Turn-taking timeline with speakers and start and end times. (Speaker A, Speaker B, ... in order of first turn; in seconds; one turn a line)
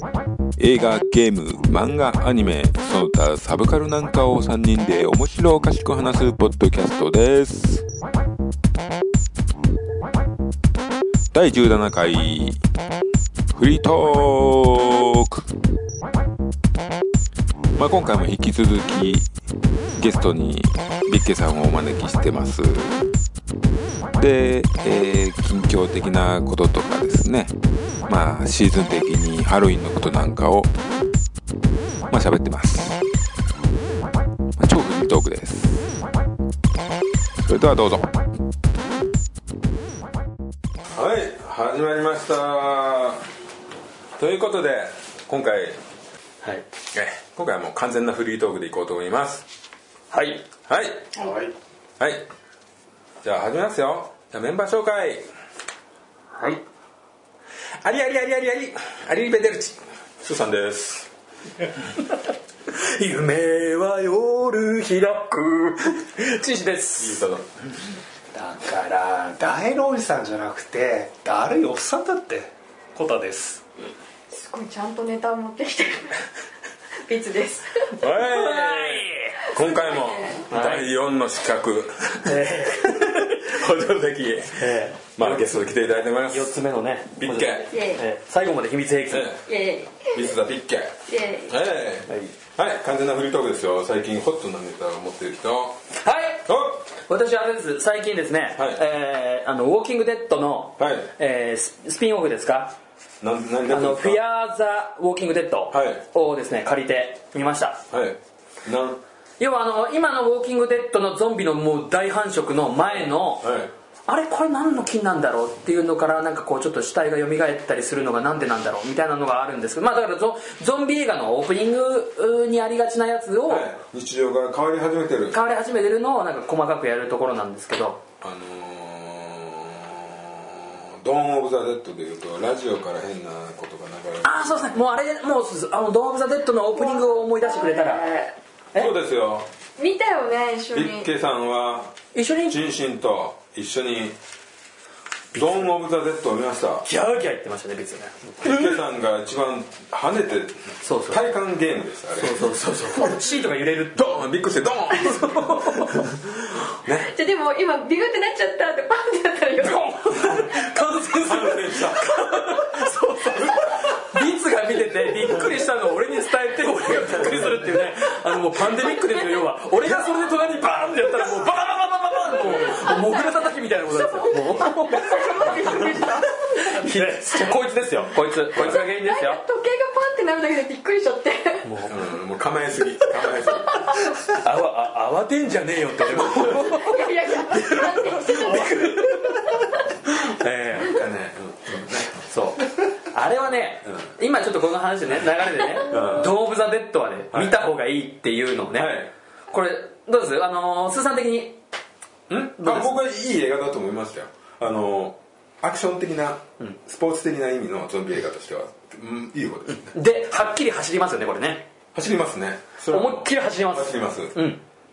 Speaker A: 0.6-7.8
Speaker A: 11.3-12.6
Speaker A: 13.5-15.5
Speaker A: 17.8-19.3
Speaker A: 20.0-23.0
Speaker A: 24.2-27.5
Speaker A: 28.1-30.7
Speaker A: 32.1-33.0
Speaker A: 34.6-35.8
Speaker A: 37.4-38.1
Speaker A: 40.9-43.2
Speaker A: 44.2-45.8
Speaker A: 46.9-49.5
Speaker B: 50.1-50.4
Speaker A: 50.7-51.1
Speaker C: 51.2-51.5
Speaker A: 52.0-52.2
Speaker A: 53.2-55.3
Speaker B: 56.4-56.6
Speaker A: 57.8-61.1
Speaker B: 62.7-67.2
Speaker A: 67.0-67.4
Speaker C: 68.3-73.6
Speaker D: 74.3-76.2
Speaker D: 77.0-77.9
Speaker A: 78.0-86.5
Speaker B: 78.1-79.5
Speaker D: 79.5-80.4
Speaker B: 80.5-80.9
Speaker B: 82.2-83.5
Speaker B: 84.5-85.7
Speaker B: 86.3-89.3
Speaker A: 87.2-87.7
Speaker D: 87.7-88.0
Speaker A: 89.1-89.5
Speaker D: 89.5-90.3
Speaker A: 90.1-95.8
Speaker D: 91.1-91.6
Speaker B: 92.1-92.3
Speaker B: 96.0-96.5
Speaker A: 96.4-96.8
Speaker B: 97.1-102.7
Speaker A: 100.8-101.1
Speaker A: 103.2-104.2
Speaker B: 103.7-107.8
Speaker A: 105.7-106.0
Speaker A: 107.9-109.0
Speaker B: 109.4-113.5
Speaker A: 113.4-113.7
Speaker B: 114.1-123.7
Speaker A: 123.5-125.4
Speaker B: 125.3-128.0
Speaker A: 128.2-134.5
Speaker B: 134.2-138.1
Speaker D: 136.7-138.3
Speaker A: 138.7-139.5
Speaker D: 139.8-141.1
Speaker A: 140.7-144.2
Speaker B: 142.1-142.6
Speaker B: 145.3-145.7
Speaker A: 145.3-146.9
Speaker B: 146.8-148.8
Speaker A: 148.4-153.1
Speaker B: 150.8-151.2
Speaker B: 152.1-154.1
Speaker A: 153.9-156.2
Speaker B: 155.0-156.0
Speaker A: 156.8-157.1
Speaker D: 157.0-159.9
Speaker B: 159.6-179.4
Speaker A: 161.2-162.6
Speaker A: 163.3-163.7
Speaker A: 165.0-165.6
Speaker A: 166.9-167.8
Speaker A: 169.8-170.2
Speaker D: 172.6-177.5
Speaker A: 174.9-175.7
Speaker A: 178.5-178.8
Speaker D: 178.6-181.7
Speaker B: 181.6-181.9
Speaker A: 181.9-184.0
Speaker B: 184.2-191.0
Speaker A: 186.1-186.6
Speaker D: 186.5-189.6
Speaker A: 190.7-192.2
Speaker B: 192.2-201.6
Speaker A: 195.9-196.3
Speaker A: 197.3-197.6
Speaker A: 198.7-199.1
Speaker A: 202.3-209.9
Speaker B: 202.6-202.9
Speaker B: 209.8-211.7
Speaker A: 211.9-214.3
Speaker B: 212.9-214.6